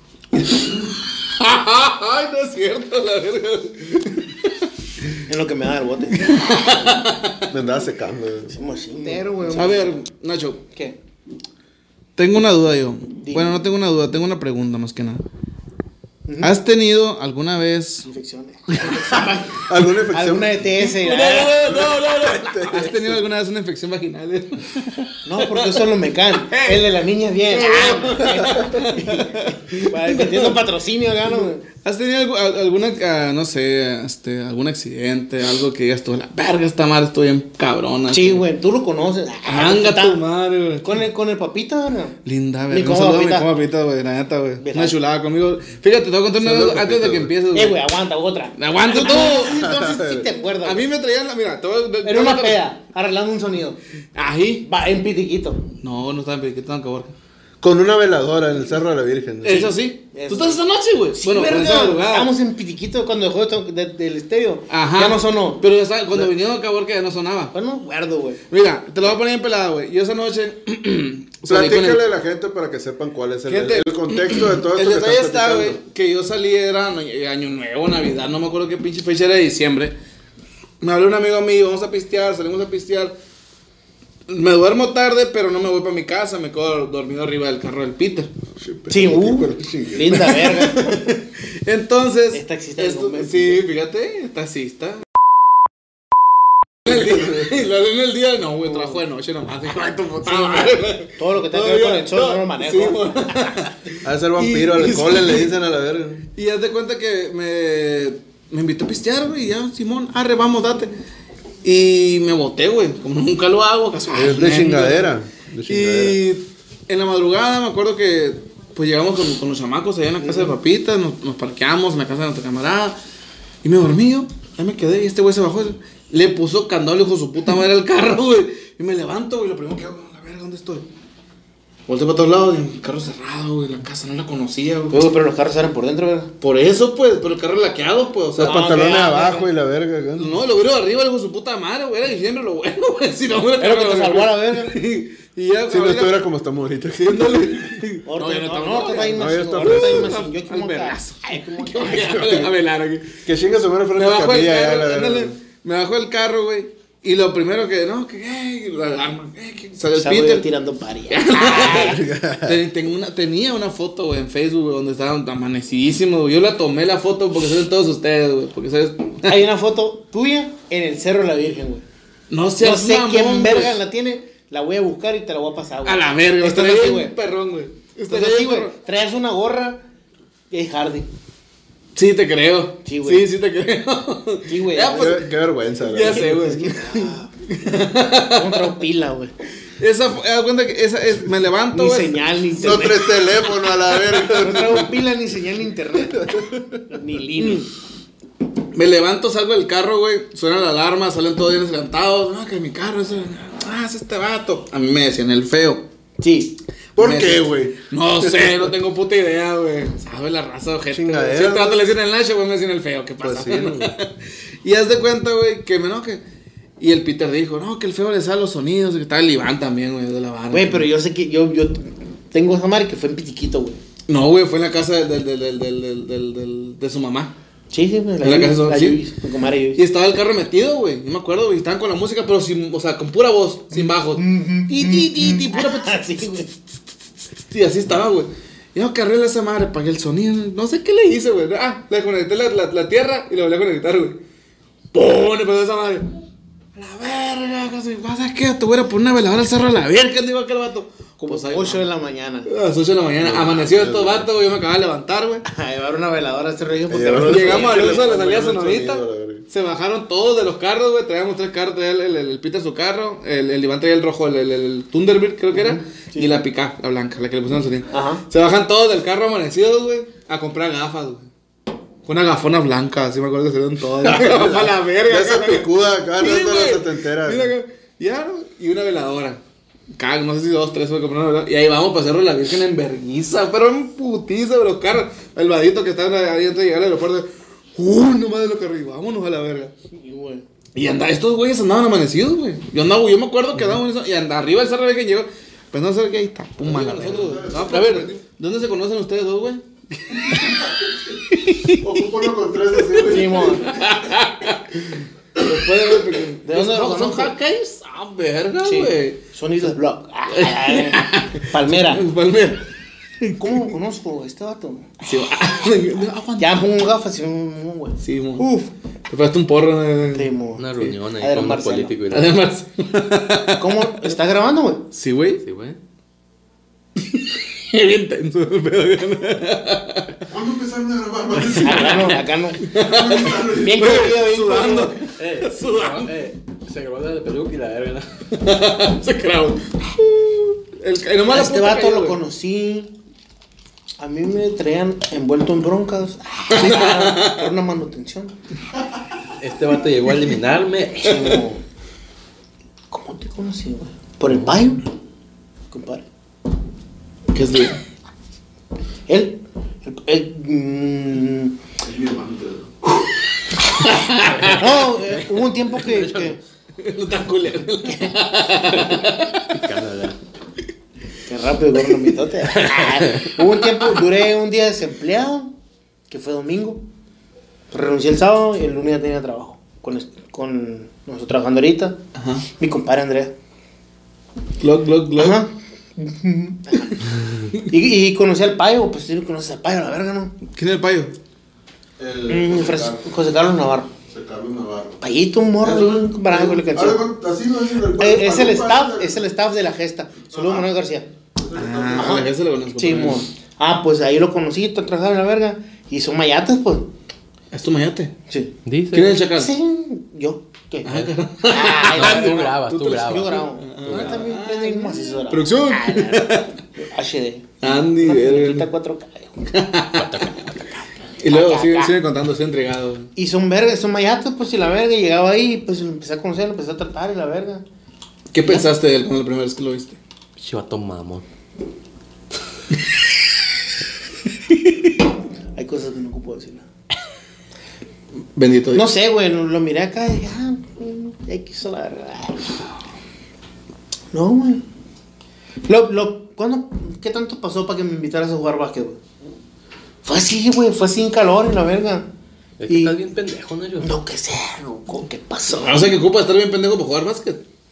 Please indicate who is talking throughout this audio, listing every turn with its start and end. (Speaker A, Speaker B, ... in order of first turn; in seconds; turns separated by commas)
Speaker A: 0.3-5.2, Speaker B: 5.3-6.3, Speaker A: 6.1-7.5, Speaker C: 7.5-8.6, Speaker B: 8.5-10.0, Speaker A: 9.5-10.6, Speaker A: 12.2-15.2, Speaker B: 13.2-13.6, Speaker B: 16.3-16.5, Speaker A: 16.4-18.1, Speaker B: 18.1-21.6, Speaker A: 18.7-19.2, Speaker C: 19.7-20.6, Speaker A: 20.8-25.8, Speaker C: 21.6-23.2, Speaker B: 25.2-31.6, Speaker A: 26.4-26.8, Speaker A: 27.5-30.6, Speaker A: 31.4-38.4, Speaker B: 38.1-40.2, Speaker A: 39.5-41.1, Speaker B: 40.8-42.2, Speaker A: 42.2-47.8, Speaker B: 42.7-43.5, Speaker B: 44.6-45.0, Speaker C: 46.4-47.3, Speaker B: 47.5-50.9, Speaker A: 48.6-49.6, Speaker C: 49.4-50.3, Speaker A: 50.6-52.6, Speaker B: 52.0-53.8, Speaker A: 54.1-54.7, Speaker B: 54.6-55.6, Speaker A: 55.8-57.1, Speaker C: 57.6-59.7, Speaker A: 59.4-62.3, Speaker B: 60.1-60.6, Speaker B: 61.1-65.6, Speaker A: 64.7-67.5, Speaker B: 67.5-68.4, Speaker A: 68.5-72.0, Speaker C: 71.5-75.8, Speaker A: 73.5-80.0, Speaker A: 80.8-83.2, Speaker A: 84.3-88.3, Speaker C: 88.6-90.2, Speaker B: 88.9-91.0, Speaker A: 90.1-95.0, Speaker B: 92.3-93.6, Speaker A: 96.9-105.5, Speaker C: 96.9-97.3, Speaker B: 98.7-99.0, Speaker B: 100.2-103.7, Speaker C: 104.0-106.3, Speaker A: 106.3-110.9, Speaker A: 111.6-115.1, Speaker C: 114.1-116.2, Speaker A: 115.7-123.0, Speaker B: 120.2-120.5, Speaker A: 123.6-130.9, Speaker A: 131.9-135.0, Speaker B: 134.9-136.3, Speaker A: 136.4-138.7, Speaker C: 138.3-140.4, Speaker B: 138.4-139.5, Speaker A: 140.2-146.2, Speaker B: 143.6-144.7, Speaker C: 145.7-147.7, Speaker A: 147.0-153.2, Speaker B: 148.1-152.4, Speaker C: 149.2-150.2, Speaker C: 153.2-155.3, Speaker A: 153.9-160.5, Speaker B: 160.0-162.0, Speaker A: 161.1-169.4, Speaker C: 161.6-162.6, Speaker B: 169.2-171.8, Speaker A: 172.3-173.8, Speaker B: 172.6-177.2, Speaker A: 175.8-178.7, Speaker B: 178.1-179.8, Speaker B: 180.5-181.1, Speaker A: 182.0-185.3, Speaker B: 182.8-183.3, Speaker B: 184.5-185.2, Speaker C: 184.9-186.6, Speaker A: 185.9-188.7, Speaker B: 186.1-187.3, Speaker B: 188.3-189.3, Speaker A: 189.8-192.2, Speaker B: 191.7-193.3, Speaker C: 192.6-194.9, Speaker B: 194.3-196.4, Speaker C: 196.0-196.8, Speaker B: 196.9-197.7, Speaker A: 198.7-205.9, Speaker B: 206.2-206.6, Speaker C: 207.0-208.7, Speaker A: 207.0-216.2, Speaker C: 210.9-211.8, Speaker C: 213.2-213.9, Speaker A: 216.8-220.9, Speaker B: 220.5-223.8, Speaker A: 224.1-227.3, Speaker B: 227.7-229.8, Speaker A: 228.2-229.0, Speaker A: 229.8-236.5, Speaker B: 233.7-236.5, Speaker A: 237.5-244.2, Speaker A: 244.9-246.1, Speaker A: 246.8-251.8, Speaker B: 251.2-252.5, Speaker A: 252.5-255.4, Speaker C: 253.2-254.3, Speaker B: 255.5-258.0, Speaker C: 256.9-259.4, Speaker A: 257.3-271.3, Speaker B: 265.5-266.4, Speaker B: 267.9-268.2, Speaker A: 272.1-279.4, Speaker C: 274.0-277.5, Speaker A: 279.9-289.7, Speaker B: 289.9-290.4, Speaker A: 290.8-300.7, Speaker C: 296.6-298.1, Speaker A: 301.3-301.8, Speaker C: 301.7-303.8, Speaker A: 302.9-309.2, Speaker B: 303.0-303.7, Speaker B: 306.4-307.3, Speaker B: 308.6-312.1, Speaker A: 310.3-312.6, Speaker A: 313.2-313.7, Speaker B: 313.4-315.0, Speaker A: 315.0-316.6, Speaker B: 316.4-318.7, Speaker A: 318.0-318.5, Speaker A: 319.1-321.0, Speaker B: 320.1-321.9, Speaker D: 320.6-322.4, Speaker A: 322.1-324.1, Speaker B: 323.6-324.9, Speaker A: 324.9-325.4, Speaker D: 325.4-325.8, Speaker A: 327.0-330.2, Speaker C: 330.3-332.2, Speaker A: 331.4-332.1, Speaker B: 331.6-332.6, Speaker A: 332.6-336.1, Speaker C: 332.7-334.0, Speaker B: 333.5-335.0, Speaker D: 335.1-338.2, Speaker A: 338.3-342.2, Speaker B: 341.3-342.9, Speaker B: 344.0-348.3, Speaker A: 346.5-347.4, Speaker D: 349.4-351.1, Speaker B: 351.0-351.6, Speaker B: 352.9-354.9, Speaker B: 355.7-356.1, Speaker A: 357.3-357.8, Speaker B: 359.1-361.6, Speaker C: 361.8-362.7, Speaker A: 363.7-364.7, Speaker D: 364.3-364.6, Speaker B: 364.6-366.4, Speaker D: 365.8-366.4, Speaker A: 366.8-369.6, Speaker D: 368.7-370.2, Speaker B: 371.3-375.5, Speaker D: 372.6-373.3, Speaker B: 376.1-376.8, Speaker B: 377.7-382.0, Speaker A: 382.1-382.5, Speaker B: 382.5-383.3, Speaker A: 384.6-385.4, Speaker B: 385.2-390.4, Speaker A: 390.5-391.2, Speaker C: 392.0-393.1, Speaker B: 392.3-393.9, Speaker C: 394.1-395.0, Speaker B: 395.0-397.1, Speaker C: 395.6-399.2, Speaker B: 398.0-401.1, Speaker C: 400.3-400.7, Speaker C: 401.4-402.3, Speaker A: 401.6-403.2, Speaker B: 402.0-406.9, Speaker A: 407.5-408.1, Speaker D: 408.6-409.2, Speaker A: 408.9-409.5, Speaker B: 409.4-419.4, Speaker A: 410.8-416.6, Speaker D: 411.7-414.2, Speaker A: 417.6-418.7, Speaker A: 419.5-420.2, Speaker D: 419.9-420.9, Speaker A: 421.2-423.1, Speaker B: 421.2-421.9, Speaker B: 423.2-427.6, Speaker A: 428.3-430.0, Speaker D: 430.4-431.2, Speaker B: 435.6-436.6, Speaker A: 438.4-438.9, Speaker B: 438.8-442.5, Speaker B: 444.1-444.6, Speaker B: 445.7-449.0, Speaker B: 450.1-452.1, Speaker D: 452.6-453.9, Speaker B: 452.7-452.9, Speaker B: 453.8-455.9, Speaker A: 455.5-457.4